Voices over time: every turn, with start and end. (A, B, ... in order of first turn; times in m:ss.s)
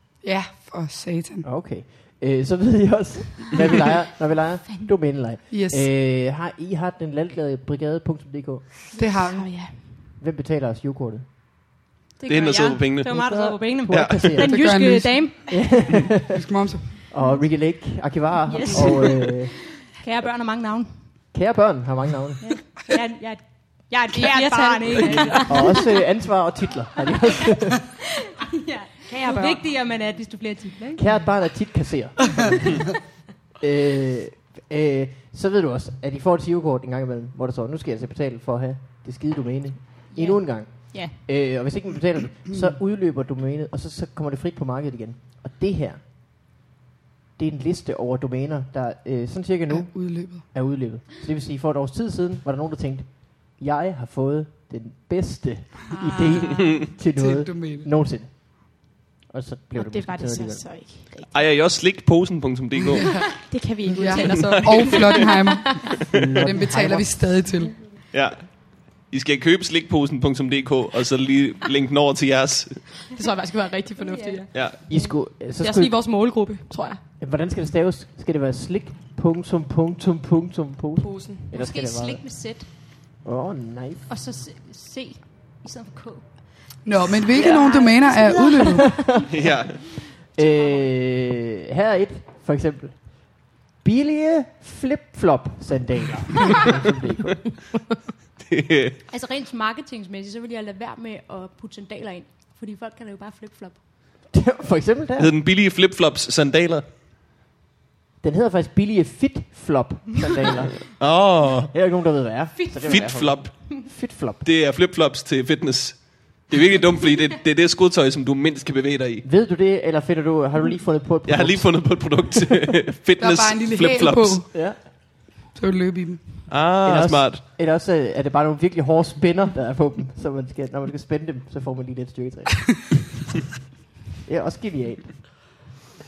0:00.2-0:01.4 A
0:01.4-0:08.7 B
0:04.6-0:04.9 C
0:05.5-0:05.8 A
0:09.0-0:09.5 A
0:09.1-0:09.9 D
0:10.2-0:11.2 B
0:12.2-0:15.6 C
0:12.3-0:13.2 E
0:13.1-0:14.7 B
0:13.9-0:14.4 E
0:14.4-0:15.5 A
0:15.5-0:16.4 B
0:16.3-0:16.9 A
0:17.1-0:19.5 B
0:17.2-0:17.7 C
0:18.4-0:21.0 C
0:21.3-0:22.5 B
0:22.4-0:25.9 C
0:24.1-0:25.9 D
0:25.5-0:27.9 B
0:28.5-0:31.3 C
0:29.1-0:29.7 D
0:31.0-0:32.8 B
0:33.6-0:46.0 B
0:40.1-0:41.1 C
0:47.4-1:00.8 B
0:49.7-0:50.4 A
0:56.0-0:56.7 C
0:57.1-0:57.9 A
0:59.7-1:01.4 D
1:01.3-1:03.4 E
1:03.0-1:03.3 A
1:03.3-1:06.0 D
1:04.0-1:07.8 A
1:04.0-1:04.3 C
1:04.3-1:05.0 E
1:06.1-1:07.2 B
1:08.1-1:12.9 E
1:13.1-1:17.0 D
1:14.0-1:15.1 C
1:14.5-1:14.8 E
1:14.9-1:16.0 B
1:17.2-1:22.4 B
1:21.0-1:21.4 D
1:21.5-1:22.7 C
1:23.2-1:24.1 B
1:24.1-1:28.6 C
1:26.8-1:29.0 A
1:27.4-1:29.0 D
1:28.9-1:29.3 B
1:29.3-1:29.8 E
1:30.1-1:37.6 B
1:38.4-1:39.0 E
1:39.1-1:43.8 C
1:44.3-1:45.3 B
1:45.2-1:46.8 E
1:48.2-1:54.4 B
1:50.9-1:51.7 E
1:52.6-1:53.8 C
1:52.8-1:59.2 E
1:59.2-2:02.4 B
2:01.2-2:04.4 E
2:03.2-2:06.4 A
2:04.5-2:04.8 B
2:06.5-2:07.4 E
2:06.8-2:13.1 B
2:14.2-2:15.4 B